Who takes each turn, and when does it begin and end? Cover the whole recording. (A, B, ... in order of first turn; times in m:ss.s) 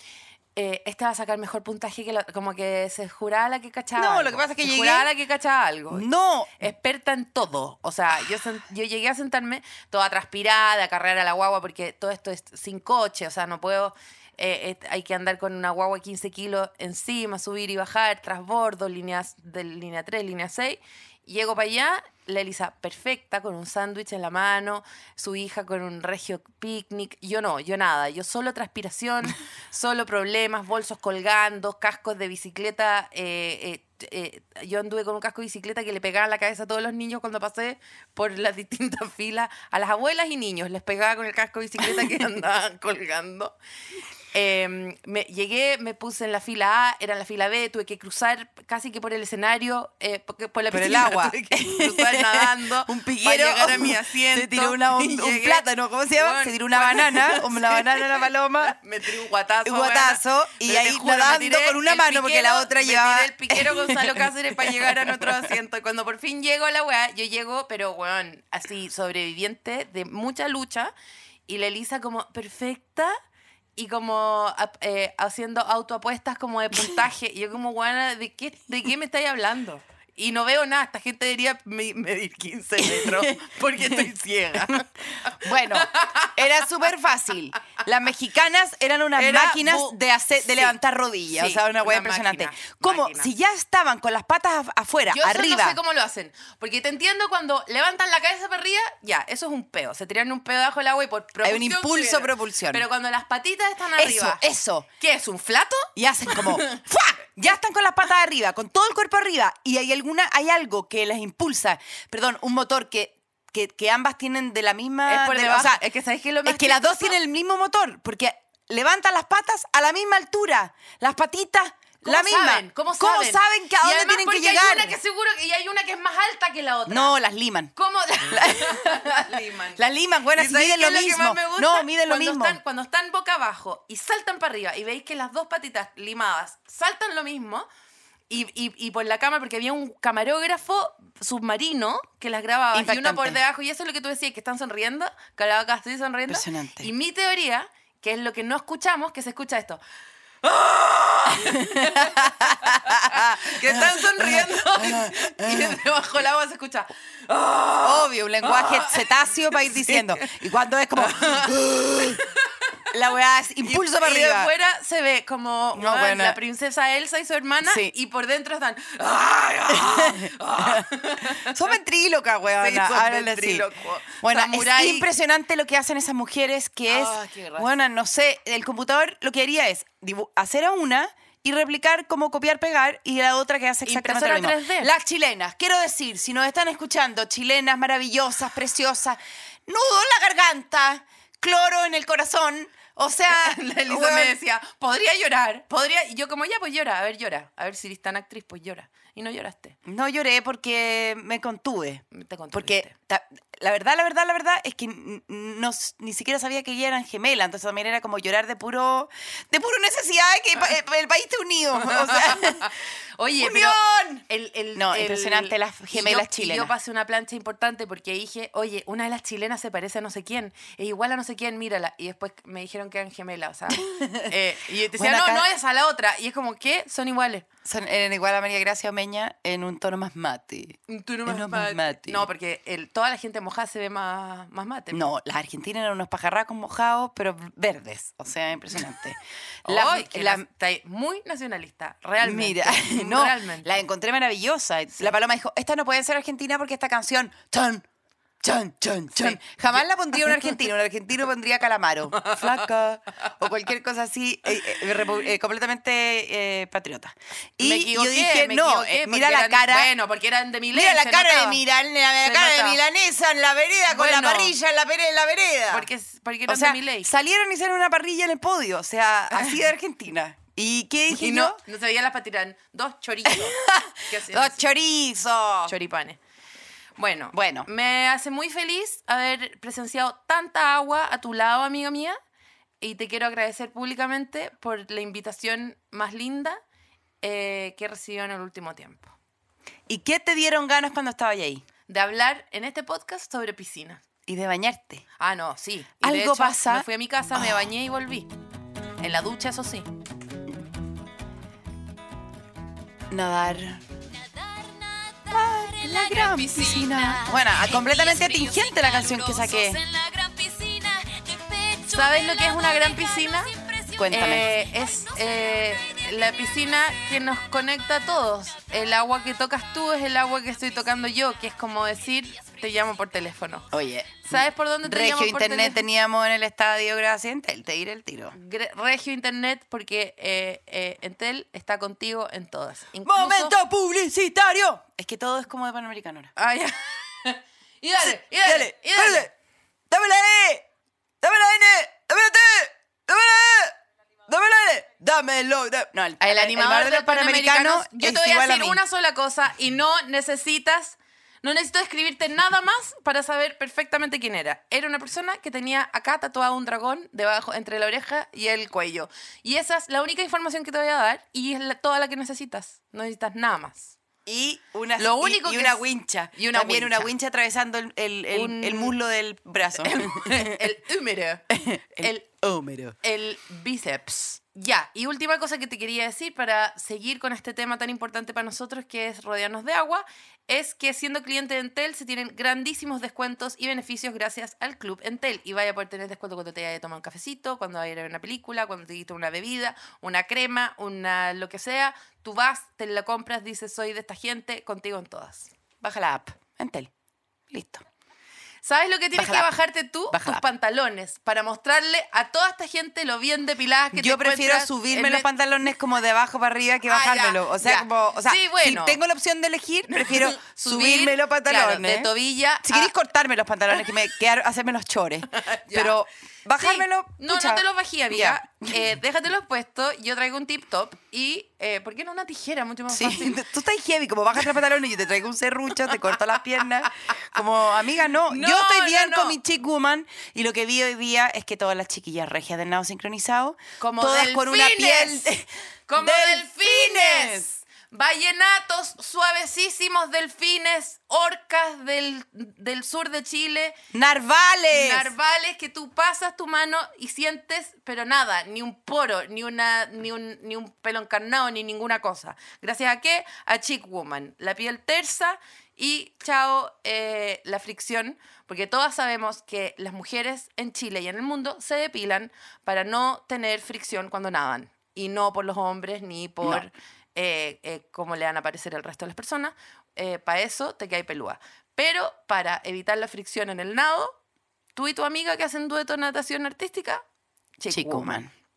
0:00.6-0:06.1 A
0:04.0-0:05.1 B
0:05.9-0:06.6 B
0:06.6-0:43.5 A
0:44.3-1:10.9 A
0:50.7-0:58.8 B
0:59.6-1:05.4 B
1:11.5-1:13.2 A
1:13.8-1:26.4 A
1:22.8-1:24.1 B
1:24.7-1:35.8 B
1:29.2-1:30.8 A
1:31.3-1:33.3 A
1:35.1-1:44.4 A
1:41.4-1:42.8 B
1:44.0-1:44.8 B
1:45.0-1:46.9 A
1:46.0-1:55.8 B
1:55.0-1:57.2 A
1:56.4-2:05.0 B
2:02.0-2:07.1 A
2:06.9-2:12.6 B
2:07.8-2:09.8 A
2:10.3-2:17.7 A
2:18.3-2:29.8 A
2:22.7-2:23.4 B
2:26.3-2:26.9 B
2:30.4-2:40.3 A
2:31.3-2:35.8 B
2:37.8-2:42.2 B
2:41.0-2:42.4 A
2:42.9-2:44.5 B
2:43.6-2:51.6 A
2:45.7-2:46.4 B
2:47.6-2:47.9 B
2:49.7-3:14.4 B
2:52.6-2:55.1 A
2:56.9-2:57.7 A
3:03.8-3:04.9 A
3:13.3-3:19.8 A
3:19.8-3:32.7 B
3:22.1-3:22.9 A
3:31.8-3:47.4 A
3:33.4-3:33.8 B
3:34.7-3:36.7 B
3:43.7-3:44.3 B
3:45.0-3:45.4 B
3:47.6-3:52.3 B
3:50.9-3:55.1 A
3:54.9-4:00.4 B
3:59.6-4:03.7 A
4:02.2-4:07.8 B
4:08.4-4:19.9 B
4:09.1-4:10.5 A
4:12.1-4:12.6 A
4:17.6-4:21.6 A
4:20.7-4:25.9 B
4:22.2-4:22.8 A
4:23.9-4:24.5 A
4:25.7-4:27.1 A
4:26.5-4:31.6 B
4:29.3-4:29.6 A
4:31.1-4:34.6 A
4:33.3-4:35.8 B
4:35.6-4:36.2 A
4:37.0-4:42.2 A
4:37.3-4:37.7 B
4:42.8-4:46.6 A
4:47.2-4:49.1 A
4:49.9-4:51.6 B
4:51.9-4:54.0 A
4:54.3-4:55.0 B
4:55.2-4:58.3 A
4:56.0-4:57.6 B
4:59.0-4:59.9 A
5:03.1-5:03.8 B
5:04.1-5:17.0 C
5:05.3-5:09.8 B
5:11.9-5:13.5 A
5:14.0-5:14.4 B
5:14.1-5:23.7 A
5:20.6-5:20.8 C
5:22.3-5:22.9 C
5:23.7-5:28.4 B
5:24.2-5:25.8 A
5:28.3-5:33.6 A
5:33.0-5:36.3 B
5:36.4-5:39.3 A
5:38.0-5:39.3 B
5:39.9-5:40.6 B
5:41.2-5:43.8 B
5:44.3-5:48.8 B
5:46.2-6:04.0 A
6:04.2-6:10.6 B
6:05.0-6:07.1 A
6:08.3-6:08.9 A
6:09.7-6:11.4 A
6:11.5-6:13.0 B
6:12.0-6:12.2 A
6:13.0-6:35.5 A
6:35.8-6:36.9 B
6:37.5-6:37.8 B
6:38.6-6:45.3 A
6:39.2-6:39.5 B
6:40.1-6:40.4 B
6:43.9-6:52.1 B
6:46.8-6:49.0 A
6:49.9-6:52.9 A
6:52.6-6:58.8 B
6:55.3-6:56.0 A
6:56.6-7:03.4 A
7:02.9-7:17.5 B
7:08.3-7:09.4 A
7:13.8-7:15.3 A
7:15.9-7:23.8 A
7:23.9-7:25.1 B
7:24.7-7:54.2 A
7:54.7-7:57.0 A
7:57.6-7:58.2 A
7:57.7-7:58.3 B